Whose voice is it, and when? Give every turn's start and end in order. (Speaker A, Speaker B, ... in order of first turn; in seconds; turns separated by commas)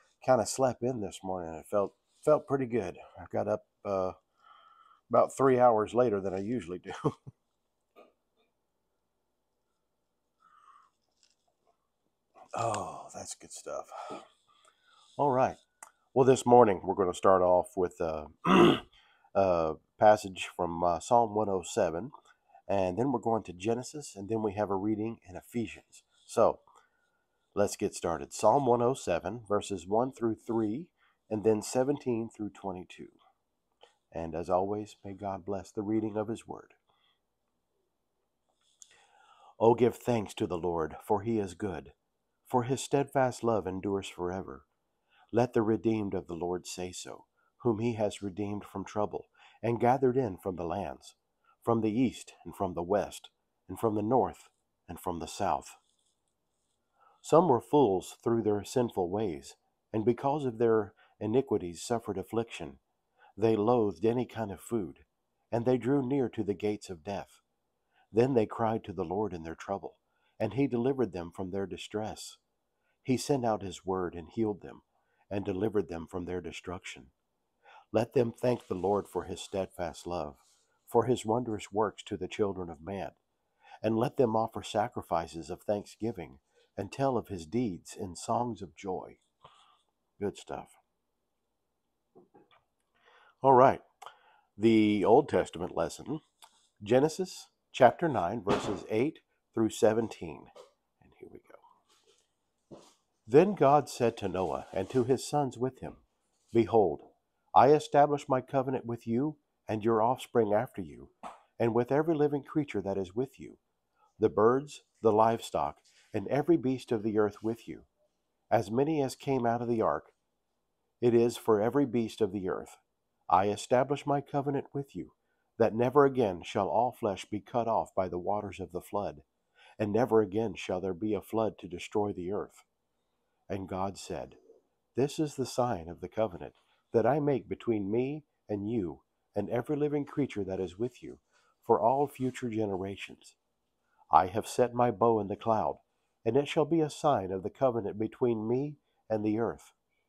Speaker A: 0.2-4.2, Speaker A: 5.1-7.1, Speaker A: 12.5-14.3, Speaker A: 15.2-15.6, Speaker A: 16.1-22.1, Speaker A: 22.7-26.6, Speaker A: 27.6-33.2, Speaker A: 34.1-36.8, Speaker A: 39.6-44.7, Speaker A: 45.3-55.8, Speaker A: 57.2-62.8, Speaker A: 63.4-67.4, Speaker A: 68.1-72.4, Speaker A: 73.0-77.1, Speaker A: 77.9-83.2, Speaker A: 83.8-89.2, Speaker A: 90.2-90.8, Speaker A: 93.4-93.8, Speaker A: 94.6-96.2, Speaker A: 96.8-101.6, Speaker A: 103.3-113.6, Speaker A: 114.2-117.9, Speaker A: 118.5-120.2, Speaker A: 121.0-129.3, Speaker A: 129.8-132.7, Speaker A: 133.5-134.4, Speaker A: 134.9-143.4, Speaker A: 144.1-149.8